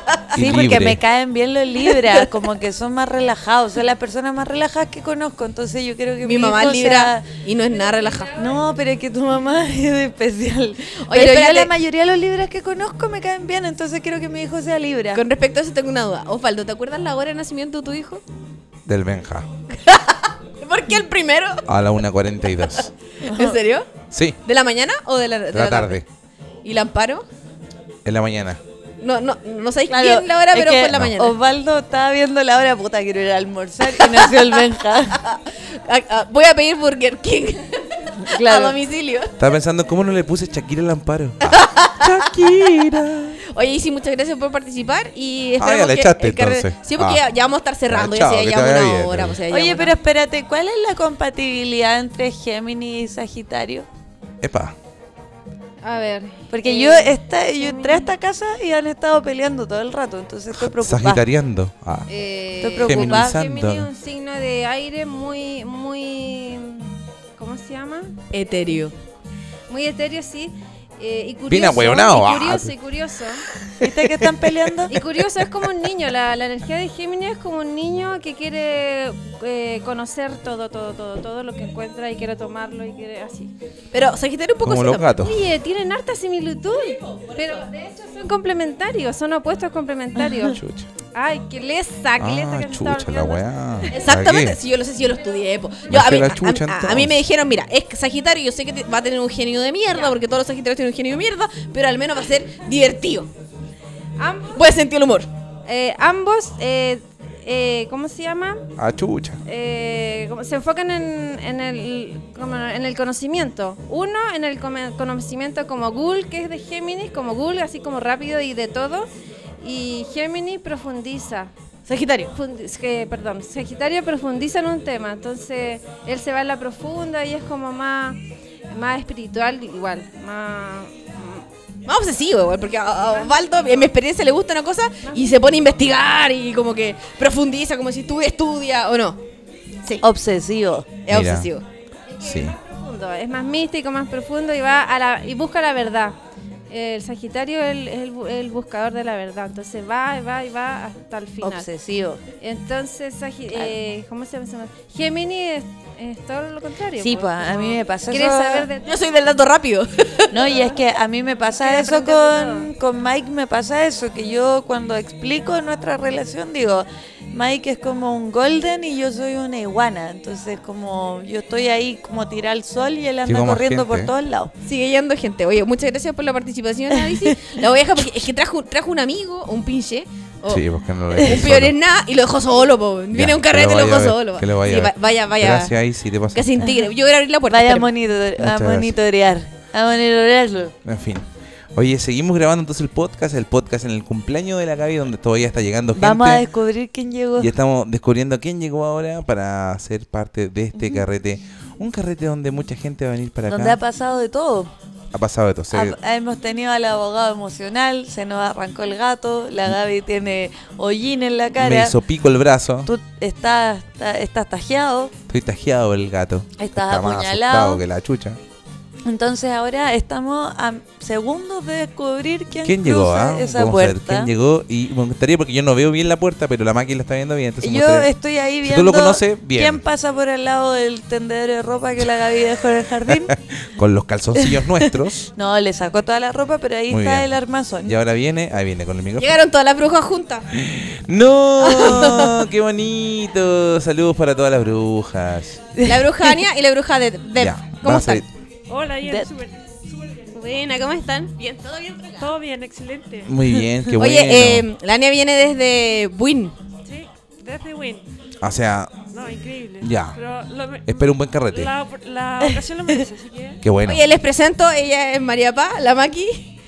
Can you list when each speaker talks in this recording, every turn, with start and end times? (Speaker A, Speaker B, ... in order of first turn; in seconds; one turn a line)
Speaker A: 0.3-7.3
Speaker B: 0.3-1.0
Speaker C: 6.2-8.4
Speaker D: 7.7-8.6
Speaker A: 8.4-15.2
Speaker C: 11.1-11.7
Speaker C: 15.1-18.2
Speaker B: 18.9-19.5
Speaker C: 19.8-21.6
Speaker B: 21.7-22.9
Speaker C: 23.3-23.9
Speaker A: 23.3-23.6
Speaker B: 24.1-24.4
Speaker C: 24.4-26.0
Speaker B: 25.5-26.1
Speaker C: 26.6-27.2
Speaker B: 28.1-28.6
Speaker C: 29.0-31.4
Speaker A: 29.9-35.2
Speaker C: 35.2-39.3
Speaker A: 38.3-38.8
Speaker B: 39.4-43.4
Speaker C: 41.5-42.0
Speaker C: 43.5-49.9
Speaker B: 45.6-47.2
Speaker B: 47.9-49.4
Speaker A: 49.5-53.9
Speaker B: 54.4-54.8
Speaker D: 55.8-58.1
Speaker A: 56.5-61.2
Speaker B: 60.5-62.1
Speaker C: 62.1-62.9
Speaker A: 62.6-63.4
Speaker B: 62.9-63.9
Speaker D: 63.1-68.2
Speaker C: 68.3-68.9
Speaker D: 69.7-73.4
Speaker B: 71.5-72.8
Speaker A: 73.8-75.0
Speaker D: 74.9-83.5
Speaker C: 83.9-85.2
Speaker B: 84.6-85.4
Speaker D: 85.2-90.6
Speaker B: 90.5-90.9
Speaker D: 91.1-93.9
Speaker B: 92.2-94.6
Speaker C: 93.9-103.3
Speaker B: 95.9-97.2
Speaker D: 104.2-104.6
Speaker C: 104.5-105.3
Speaker D: 105.7-108.6
Speaker B: 108.8-109.4
Speaker D: 109.5-119.1
Speaker D: 119.6-121.5
Speaker C: 121.9-122.3
Speaker D: 122.3-131.4
Speaker C: 131.9-139.2
Speaker D: 133.2-133.4
Speaker D: 135.1-135.4
Speaker A: 140.0-140.9
Speaker C: 141.1-141.7
Speaker B: 141.1-141.5
Speaker D: 142.2-146.2
Speaker B: 142.2-142.6
Speaker D: 146.7-151.7
Speaker A: 151.4-152.2
Speaker D: 152.4-158.9
Speaker A: 157.0-158.7
Speaker C: 158.8-160.4
Speaker A: 160.3-174.5
Speaker D: 161.6-162.7
Speaker B: 173.3-174.1
Speaker C: 174.7-180.7
Speaker A: 177.1-177.4
Speaker B: 180.5-181.8
Speaker C: 181.2-185.7
Speaker B: 183.1-186.7
Speaker C: 186.3-187.9
Speaker A: 187.5-190.7
Speaker B: 188.4-189.0
Speaker B: 190.8-196.4
Speaker A: 195.9-197.5
Speaker B: 197.4-203.8
Speaker A: 200.8-201.0
Speaker A: 203.5-204.7
Speaker B: 205.1-206.0
Speaker A: 205.7-211.9
Speaker B: 211.6-212.9
Speaker A: 212.8-215.1
Speaker B: 215.3-218.4
Speaker A: 216.6-217.8
Speaker A: 219.1-224.3
Speaker B: 222.6-228.1
Speaker A: 227.6-233.3
Speaker B: 228.6-229.8
Speaker B: 233.1-235.3
Speaker A: 235.3-238.0
Speaker B: 236.9-237.3
Speaker B: 237.8-239.4
Speaker C: 239.2-240.5
Speaker B: 240.5-245.6
Speaker C: 241.6-242.3
Speaker C: 245.8-248.2
Speaker B: 247.4-248.3
Speaker E: 248.7-250.7
Speaker C: 250.3-251.6
Speaker E: 252.1-253.3
Speaker B: 253.2-254.7
Speaker C: 254.0-256.5
Speaker E: 256.9-258.1
Speaker B: 258.4-258.9
Speaker E: 259.1-263.6
Speaker B: 259.8-260.2
Speaker B: 260.9-261.7
Speaker B: 263.6-264.0
Speaker C: 263.9-266.5